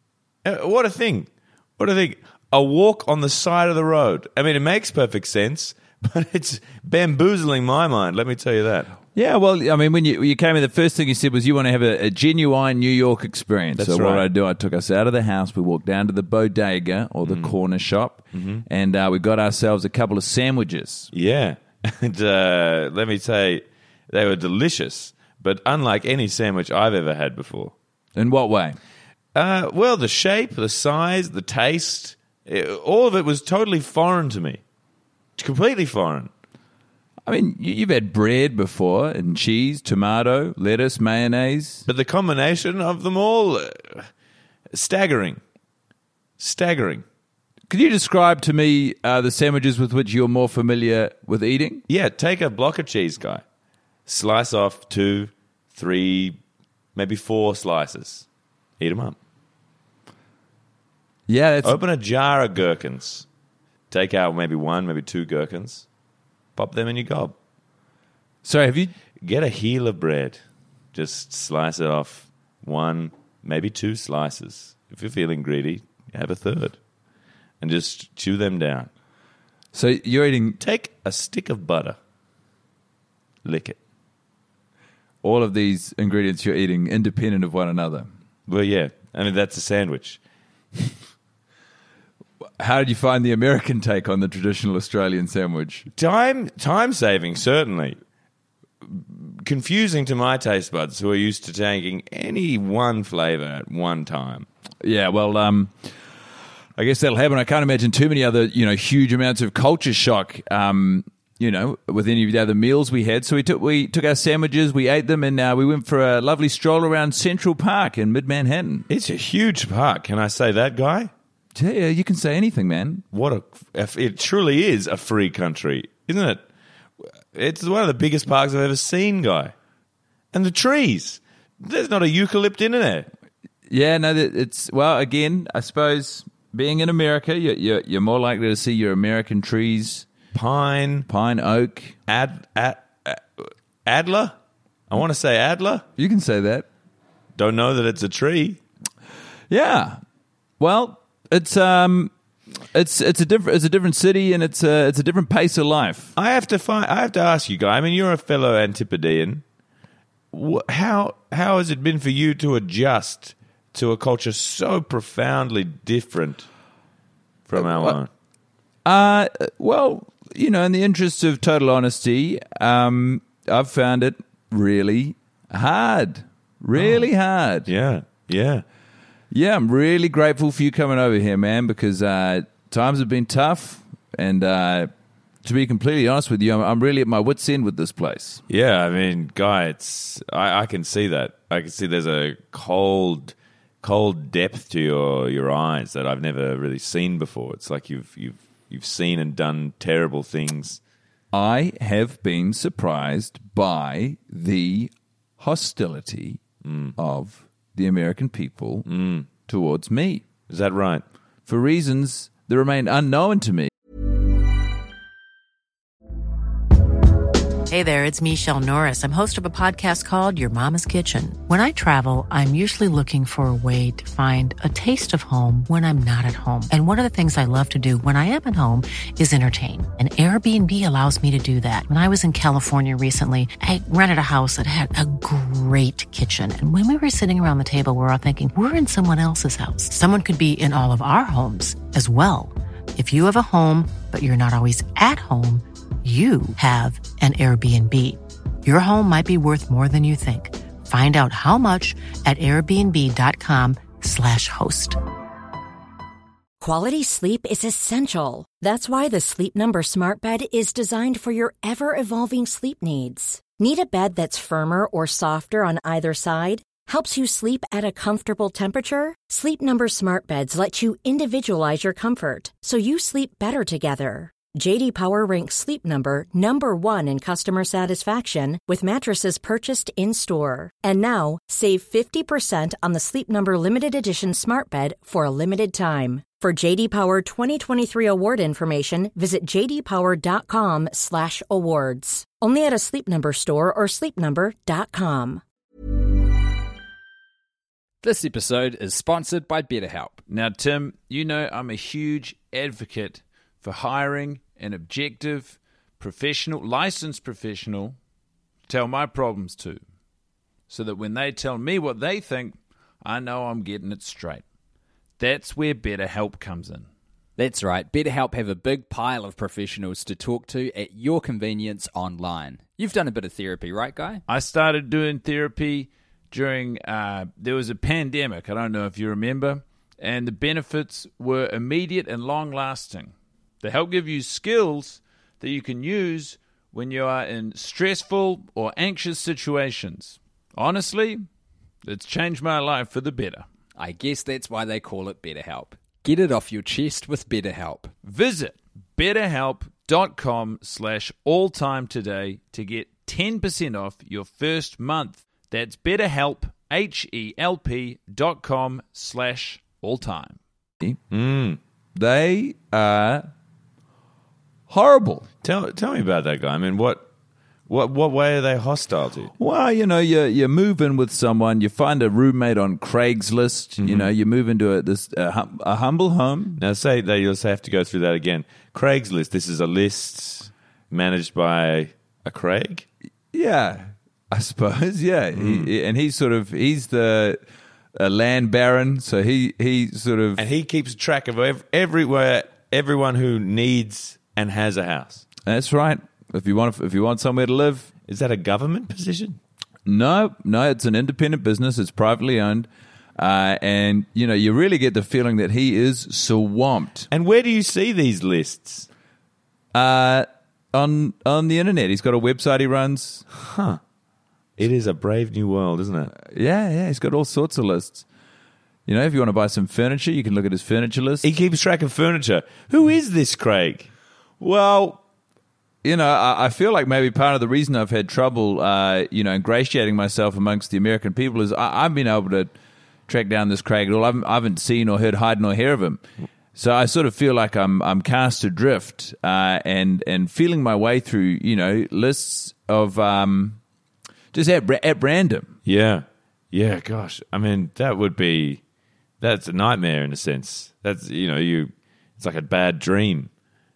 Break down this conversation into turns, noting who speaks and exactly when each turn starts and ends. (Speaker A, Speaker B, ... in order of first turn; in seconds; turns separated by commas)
Speaker A: 0.4-8.9, Speaker B: 9.1-21.1, Speaker A: 13.8-14.3, Speaker A: 17.2-17.5, Speaker A: 18.3-18.6, Speaker A: 21.1-27.7, Speaker B: 28.1-28.8, Speaker A: 29.3-34.6, Speaker A: 35.4-36.3, Speaker B: 37.2-41.8, Speaker A: 41.9-44.1, Speaker A: 44.7-45.4, Speaker A: 46.4-47.0, Speaker B: 47.7-51.8, Speaker A: 51.9-53.4, Speaker A: 54.1-56.4, Speaker A: 56.9-58.2, Speaker A: 58.8-59.2, Speaker B: 61.3-61.8, Speaker A: 61.6-63.3, Speaker A: 63.9-65.8, Speaker A: 66.5-67.3, Speaker B: 68.4-68.9, Speaker A: 69.2-70.4, Speaker A: 70.9-76.8, Speaker A: 77.6-78.9, Speaker B: 79.7-80.6, Speaker A: 80.6-82.0, Speaker A: 83.4-83.8, Speaker B: 85.2-88.1, Speaker A: 88.5-90.2, Speaker B: 92.6-95.9, Speaker A: 95.9-98.0, Speaker A: 98.8-104.5, Speaker B: 104.8-105.9, Speaker B: 106.8-118.8, Speaker A: 118.9-121.1, Speaker B: 121.5-123.0, Speaker A: 123.1-126.4, Speaker A: 127.0-129.5, Speaker A: 130.3-133.1, Speaker B: 133.7-140.1, Speaker A: 140.3-141.1, Speaker B: 141.1-142.0, Speaker A: 142.1-144.3, Speaker A: 144.9-145.8, Speaker B: 146.0-146.7, Speaker A: 147.3-148.6, Speaker B: 149.5-150.0, Speaker B: 150.6-156.1, Speaker A: 156.2-159.4, Speaker A: 160.3-166.5, Speaker A: 167.5-168.1, Speaker B: 167.6-167.9, Speaker B: 168.8-177.7, Speaker A: 176.7-177.1, Speaker A: 177.7-178.6, Speaker B: 179.3-184.9, Speaker B: 185.4-188.4, Speaker A: 188.5-200.8, Speaker B: 201.3-206.4, Speaker A: 206.6-206.9, Speaker B: 207.0-208.9, Speaker A: 208.8-209.3, Speaker B: 209.4-210.2, Speaker A: 210.5-211.0, Speaker B: 211.5-213.7, Speaker C: 217.7-255.0, Speaker D: 256.6-295.4, Speaker E: 298.0-300.2, Speaker B: 300.3-307.9, Speaker B: 308.7-309.8, Speaker B: 310.7-314.4, Speaker B: 315.2-316.9, Speaker E: 317.4-324.2, Speaker B: 324.3-341.2, Speaker B: 341.8-343.4, Speaker E: 343.7-347.9, Speaker B: 348.0-361.0, Speaker A: 361.1-361.6, Speaker B: 361.9-363.2, Speaker B: 364.7-365.2, Speaker A: 365.4-367.1, Speaker A: 367.7-369.3, Speaker B: 369.4-376.6, Speaker A: 373.8-374.1, Speaker A: 376.6-382.9, Speaker B: 383.3-387.4, Speaker A: 385.3-385.7, Speaker B: 387.9-390.4, Speaker A: 390.4-395.2, Speaker B: 395.4-397.9, Speaker A: 398.1-399.4, Speaker B: 399.8-407.1, Speaker A: 407.1-408.9, Speaker B: 409.7-413.2, Speaker A: 413.3-413.8, Speaker A: 414.6-416.1, Speaker B: 416.2-418.0, Speaker B: 418.9-421.2, Speaker A: 421.2-423.9, Speaker B: 424.4-425.0, Speaker B: 425.8-432.5, Speaker B: 433.1-436.0, Speaker B: 436.5-443.6, Speaker B: 444.3-445.6, Speaker A: 445.6-448.6, Speaker A: 449.2-453.3